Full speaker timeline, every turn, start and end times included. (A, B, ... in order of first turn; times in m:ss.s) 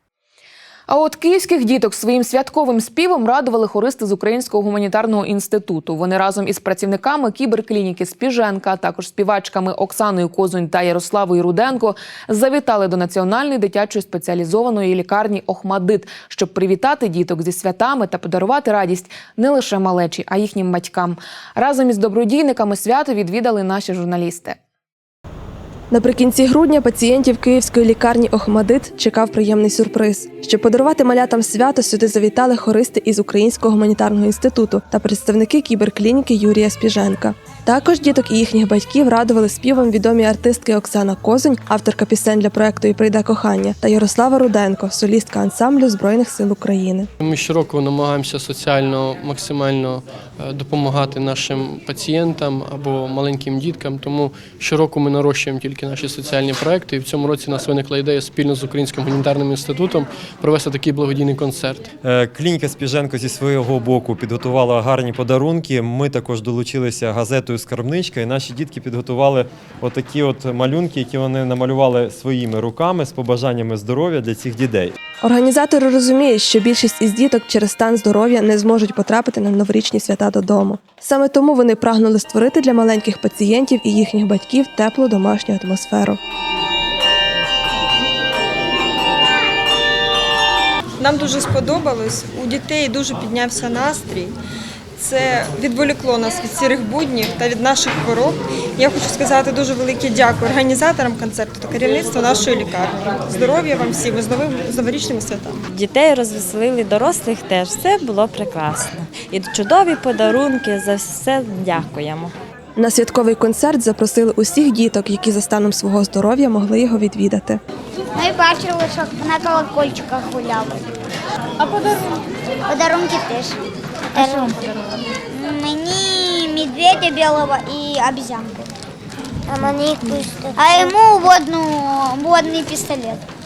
0:00.9-0:24.6 A
0:25.9-0:47.1 B
0:47.3-0:49.9 C
0:50.4-1:01.6 C
1:02.0-1:14.9 D
1:15.2-1:26.2 B
1:31.0-1:34.3 E
1:35.0-1:45.5 E
1:45.7-1:52.3 F
1:52.8-1:57.6 B
1:58.2-2:00.7 G
2:01.6-2:02.0 G
2:02.7-2:03.5 G
2:04.2-2:04.5 G
2:05.3-2:08.6 G
2:09.5-2:13.2 G